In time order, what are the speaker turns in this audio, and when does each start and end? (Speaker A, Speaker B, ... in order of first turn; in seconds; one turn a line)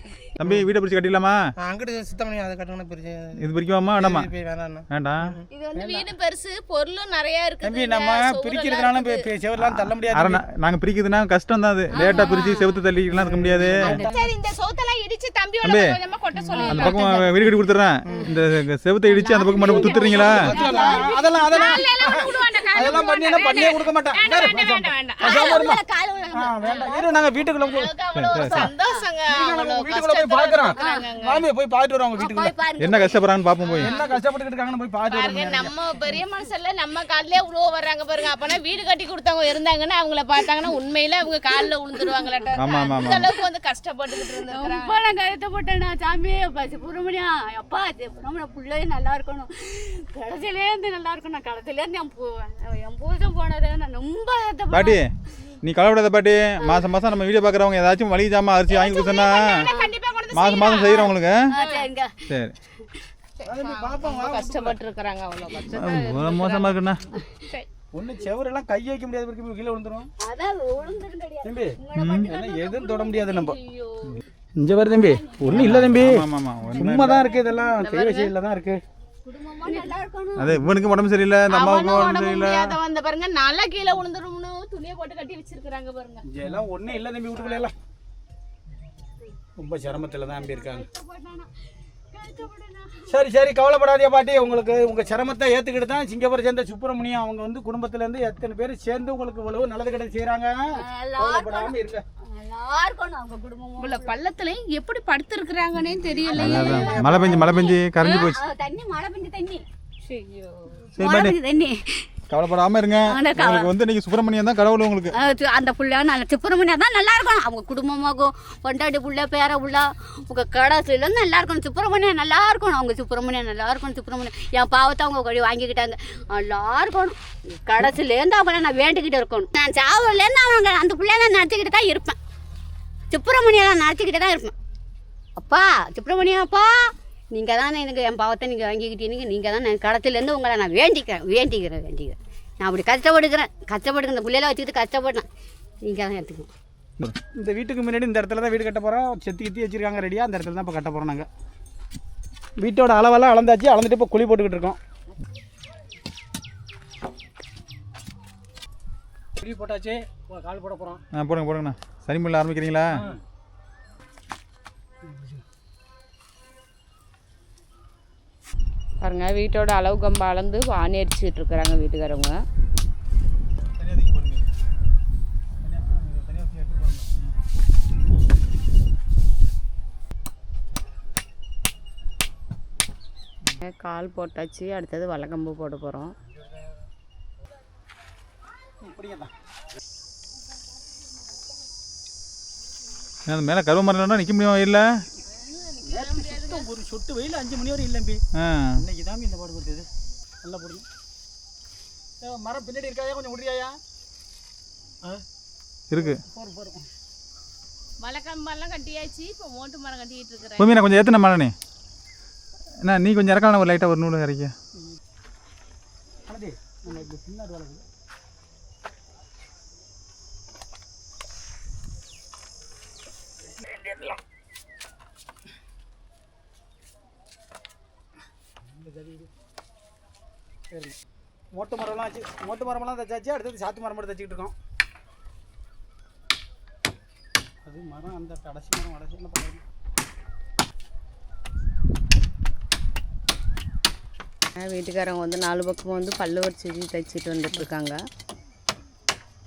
Speaker A: 0.4-1.4
Speaker B: 1.6-3.4
Speaker A: 3.4-4.3
Speaker B: 4.0-5.4
Speaker A: 4.9-5.3
Speaker C: 5.5-6.1
Speaker D: 5.8-9.2
Speaker E: 7.6-10.4
Speaker A: 9.6-14.0
Speaker C: 11.9-12.5
Speaker D: 11.9-12.7
Speaker E: 13.1-14.1
Speaker C: 13.8-14.1
Speaker D: 14.1-17.2
Speaker A: 15.6-16.0
Speaker C: 16.5-17.4
Speaker A: 16.7-20.5
Speaker B: 18.0-18.4
Speaker C: 19.1-23.0
Speaker B: 19.6-21.0
Speaker E: 19.9-25.8
Speaker D: 20.6-25.6
Speaker C: 25.2-27.2
Speaker E: 26.3-28.7
Speaker D: 27.6-31.4
Speaker A: 28.1-28.7
Speaker C: 28.6-29.0
Speaker E: 29.3-32.5
Speaker C: 30.7-31.1
Speaker C: 32.2-33.2
Speaker A: 32.8-33.9
Speaker D: 33.7-34.1
Speaker E: 33.8-35.7
Speaker D: 35.1-44.9
Speaker C: 42.0-43.3
Speaker A: 42.6-43.3
Speaker C: 44.3-55.0
Speaker A: 54.7-55.1
Speaker A: 55.6-59.7
Speaker C: 56.6-56.8
Speaker D: 58.7-61.8
Speaker C: 59.5-59.9
Speaker A: 60.3-61.5
Speaker C: 61.5-62.3
Speaker A: 62.3-62.5
Speaker D: 63.4-66.8
Speaker E: 63.4-64.8
Speaker A: 65.7-67.0
Speaker C: 67.2-67.4
Speaker E: 67.9-70.1
Speaker C: 70.2-73.5
Speaker E: 71.4-73.6
Speaker A: 71.9-72.3
Speaker D: 73.1-74.2
Speaker E: 74.1-78.8
Speaker A: 75.5-77.3
Speaker D: 77.7-78.3
Speaker C: 79.2-80.5
Speaker A: 80.4-82.8
Speaker D: 81.5-86.2
Speaker E: 86.2-87.7
Speaker E: 89.6-90.9
Speaker C: 90.2-91.5
Speaker C: 92.1-93.1
Speaker E: 93.1-102.0
Speaker C: 100.7-101.7
Speaker C: 102.2-104.1
Speaker D: 103.8-108.3
Speaker C: 106.2-109.6
Speaker A: 106.3-108.4
Speaker D: 110.0-110.8
Speaker A: 111.0-111.3
Speaker C: 111.0-112.1
Speaker A: 112.3-115.1
Speaker C: 113.1-113.7
Speaker C: 115.1-132.2
Speaker C: 133.1-134.5
Speaker C: 135.4-145.3
Speaker C: 145.8-146.5
Speaker E: 147.4-151.3
Speaker E: 152.6-154.8
Speaker E: 159.4-161.0
Speaker A: 161.1-163.0
Speaker E: 162.9-163.2
Speaker E: 165.0-165.4
Speaker D: 169.0-172.4
Speaker E: 173.8-174.4
Speaker E: 175.6-177.2
Speaker D: 183.6-186.1
Speaker E: 188.8-189.3
Speaker A: 193.2-195.0
Speaker D: 195.2-196.7
Speaker E: 195.8-198.2
Speaker A: 198.3-198.8
Speaker E: 198.8-199.9
Speaker E: 200.4-200.8
Speaker E: 202.2-203.8
Speaker A: 205.9-206.2
Speaker E: 205.9-206.8
Speaker D: 208.0-210.7
Speaker A: 210.6-211.5
Speaker A: 212.8-214.5
Speaker E: 216.3-217.8
Speaker E: 223.7-224.1
Speaker E: 228.6-229.3
Speaker E: 230.7-230.9
Speaker E: 231.5-234.5
Speaker E: 237.6-239.6
Speaker D: 244.6-248.0